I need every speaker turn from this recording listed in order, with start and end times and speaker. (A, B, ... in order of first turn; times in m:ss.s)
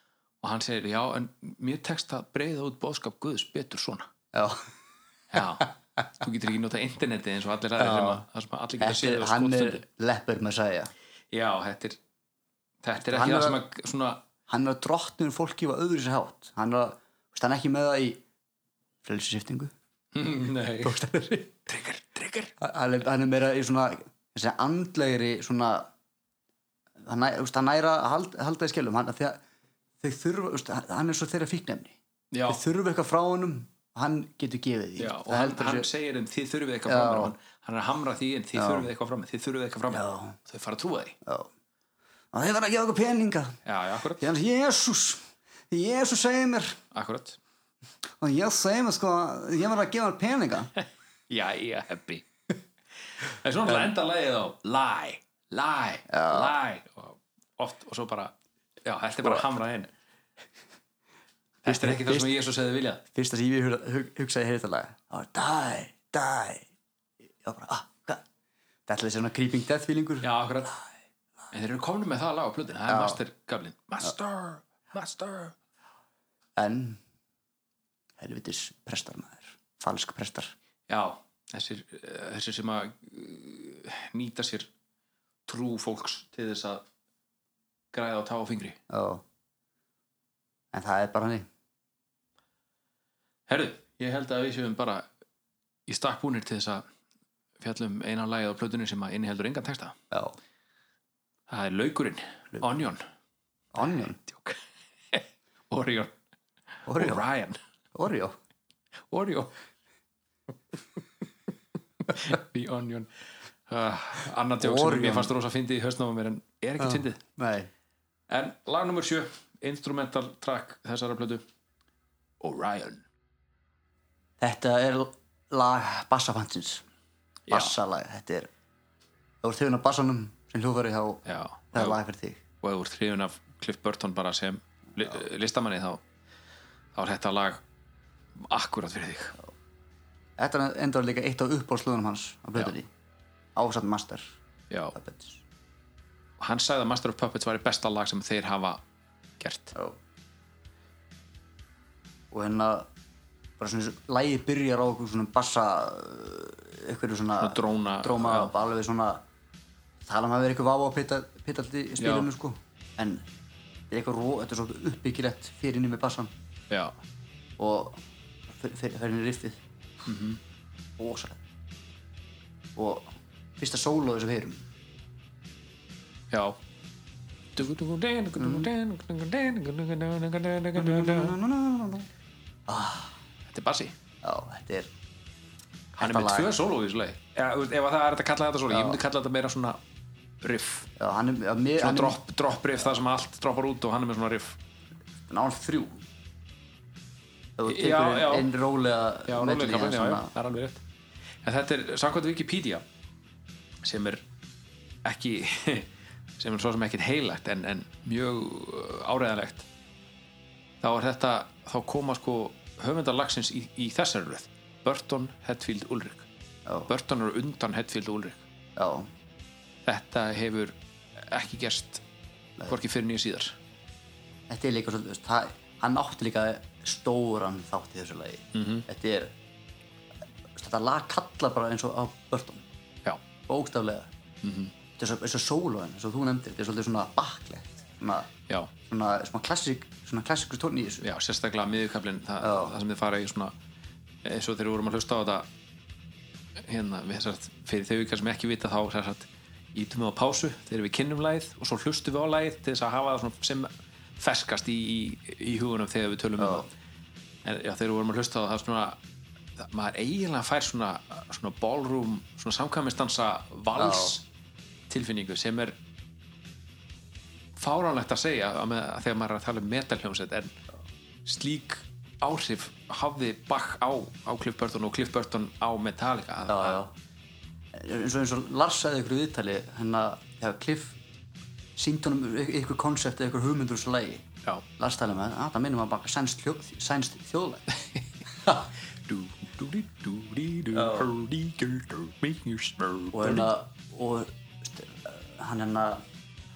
0:00.4-0:04.1 A
0:04.3-0:04.6 B
0:05.3-0:09.8 A
0:07.8-0:08.2 B
0:08.8-0:10.9 B
0:11.3-0:12.0 A
0:12.8-0:14.2 A
0:13.1-0:13.6 B
0:14.5-0:18.2 B
0:19.0-0:19.7 B
0:20.1-0:21.0 A
0:20.8-0:21.6 B
0:21.7-0:22.5 A
0:22.6-0:25.9 B
0:27.0-0:29.4 B
0:30.0-0:32.0 B
0:32.3-0:32.6 A
0:32.5-0:35.9 B
0:35.0-0:41.2 A
0:36.9-0:37.3 B
0:38.6-0:38.9 B
0:39.9-0:40.4 B
0:42.3-0:43.6 B
0:43.6-0:44.3 A
0:44.2-0:46.8 B
0:46.9-0:47.4 A
0:48.2-0:50.7 B
0:51.3-0:52.3 A
0:53.2-0:58.3 A
0:56.1-0:56.6 B
0:58.8-0:59.9 A
1:01.6-1:03.0 A
1:01.7-1:02.4 B
1:03.1-1:06.7 B
1:07.4-1:08.2 B
1:08.9-1:10.3 B
1:10.2-1:10.8 A
1:11.5-1:15.6 A
1:12.9-1:13.2 B
1:16.6-1:17.0 B
1:18.2-1:20.5 B
1:20.9-1:24.7 A
1:25.5-1:26.8 A
1:27.9-1:28.8 A
1:28.9-1:29.2 B
1:30.7-1:31.5 B
1:33.5-1:35.1 A
1:35.9-1:36.8 A
1:37.6-1:40.0 A
1:41.5-1:43.0 A
1:43.7-1:44.2 B
1:44.2-1:44.6 A
1:45.1-1:46.2 A
1:46.9-1:47.2 B
1:46.9-1:47.6 A
1:47.9-1:48.4 B
1:49.1-1:49.5 A
1:52.0-1:53.1 A
1:53.7-1:57.2 A
1:54.6-1:55.3 B
1:56.8-1:57.7 B
1:58.3-2:01.4 A
2:02.4-2:03.0 A
2:04.4-2:06.8 B
2:07.5-2:07.8 A
2:07.5-2:08.5 B
2:09.4-2:12.4 B
2:11.3-2:12.0 A
2:12.6-2:16.0 A
2:17.0-2:17.6 A
2:18.4-2:19.4 A
2:20.4-2:22.9 B
2:23.6-2:24.3 B
2:24.7-2:25.0 A
2:25.0-2:25.4 B
2:26.4-2:28.8 A
2:29.4-2:29.7 A
2:32.3-2:32.9 B
2:33.6-2:39.2 B
2:37.4-2:38.5 A
2:40.0-2:43.2 B
2:42.0-2:42.3 A
2:43.9-2:46.3 B
2:47.6-2:49.6 B
2:50.1-2:50.4 A
2:51.0-2:51.4 B
2:52.8-2:54.6 B
2:56.3-2:56.6 A
2:57.6-3:01.4 A
2:58.4-2:58.7 B
3:00.8-3:02.1 B
3:02.7-3:03.1 B
3:03.5-3:04.0 A
3:04.2-3:04.9 B
3:06.0-3:06.6 B
3:06.0-3:09.8 A
3:08.7-3:09.0 B
3:10.4-3:10.9 A
3:11.0-3:12.2 B
3:11.8-3:14.6 A
3:15.3-3:16.0 B
3:17.6-3:20.3 B
3:17.7-3:18.5 A
3:19.3-3:20.8 A
3:21.4-3:22.8 A
3:23.8-3:24.2 A
3:25.0-3:29.7 A
3:30.8-3:36.3 A
3:36.9-3:38.4 A
3:38.8-3:39.1 B
3:39.8-3:42.0 A
3:42.7-3:43.6 A
3:44.5-3:49.3 B
3:48.5-3:48.9 A
3:50.5-3:52.7 B
3:53.5-3:54.1 B
3:54.4-3:54.7 A
3:55.0-3:58.3 B
3:58.8-4:01.0 B
4:01.0-4:03.5 A
4:02.4-4:02.8 B
4:04.2-4:05.5 A
4:06.6-4:16.7 A
4:16.4-4:16.7 B
4:17.4-4:19.0 A
4:19.6-4:24.2 A
4:23.8-4:24.2 B
4:24.9-4:25.8 A
4:27.6-4:30.6 A
4:31.3-4:36.8 A
4:36.5-4:36.9 B
4:37.7-4:41.0 B
4:41.8-4:47.6 B
4:48.4-4:53.5 A
4:50.7-4:51.1 B
4:53.1-4:56.0 B